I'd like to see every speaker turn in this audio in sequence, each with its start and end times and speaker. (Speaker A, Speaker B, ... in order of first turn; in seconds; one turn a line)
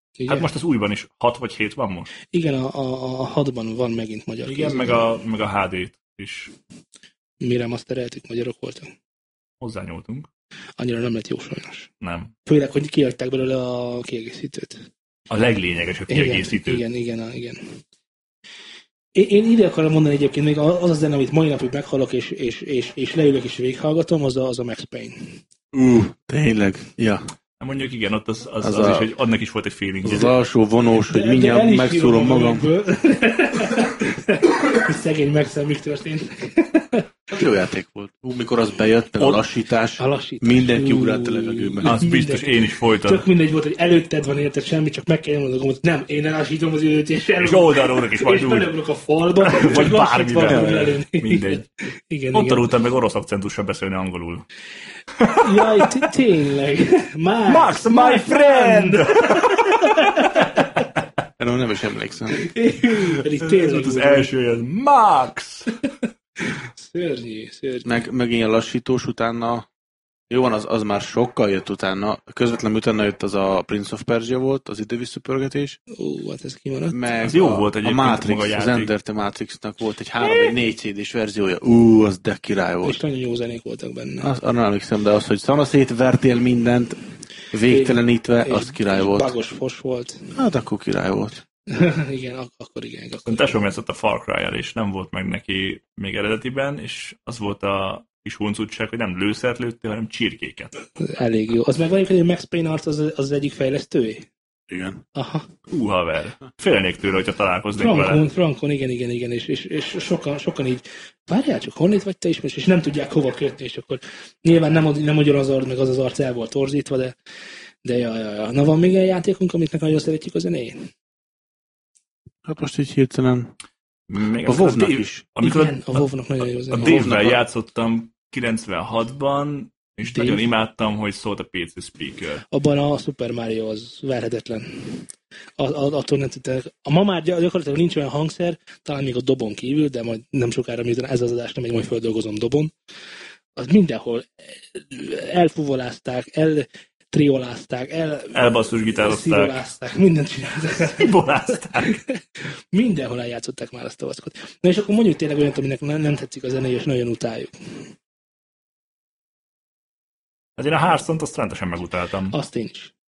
Speaker A: 0.2-0.5
Speaker B: 0.3-2.1
Speaker A: 2.3-5.0
Speaker B: 4.5-6.5
Speaker A: 7.4-8.9
Speaker B: 9.6-10.3
Speaker A: 10.8-11.9
Speaker B: 12.0-12.3
Speaker A: 12.5-14.8
Speaker B: 15.3-16.8
Speaker A: 16.1-17.8
Speaker A: 19.1-25.4
Speaker C: 25.7-27.2
Speaker B: 27.6-30.3
Speaker C: 28.6-29.1
Speaker C: 30.0-32.7
Speaker A: 31.1-37.1
Speaker C: 37.3-42.0
Speaker B: 39.2-39.4
Speaker A: 40.0-52.7
Speaker B: 41.9-43.2
Speaker B: 47.4-48.7
Speaker B: 49.4-51.6
Speaker C: 50.4-51.0
Speaker B: 52.3-54.5
Speaker B: 55.2-55.9
Speaker A: 55.3-60.8
Speaker B: 57.5-60.6
Speaker C: 61.4-62.4
Speaker A: 62.3-64.3
Speaker B: 63.4-65.7
Speaker A: 66.5-67.9
Speaker C: 67.8-69.7
Speaker C: 70.3-75.8
Speaker A: 75.9-77.0
Speaker C: 76.9-83.0
Speaker B: 77.2-78.9
Speaker A: 82.8-84.3
Speaker C: 84.2-87.0
Speaker C: 87.5-89.3
Speaker A: 87.7-90.3
Speaker C: 90.3-91.4
Speaker A: 91.7-93.6
Speaker B: 93.3-100.7
Speaker A: 101.0-104.3
Speaker C: 104.7-105.0
Speaker A: 105.2-105.5
Speaker B: 105.7-108.2
Speaker A: 107.8-117.2
Speaker A: 117.8-120.9
Speaker C: 122.5-123.5
Speaker B: 124.1-126.1
Speaker C: 124.5-125.3
Speaker A: 125.4-127.1
Speaker B: 126.7-132.4
Speaker C: 126.8-127.4
Speaker A: 130.1-130.4
Speaker A: 132.5-142.7
Speaker A: 143.6-152.2
Speaker B: 148.3-149.6
Speaker B: 150.8-152.0
Speaker A: 152.7-157.5
Speaker B: 160.6-162.3
Speaker A: 162.3-162.9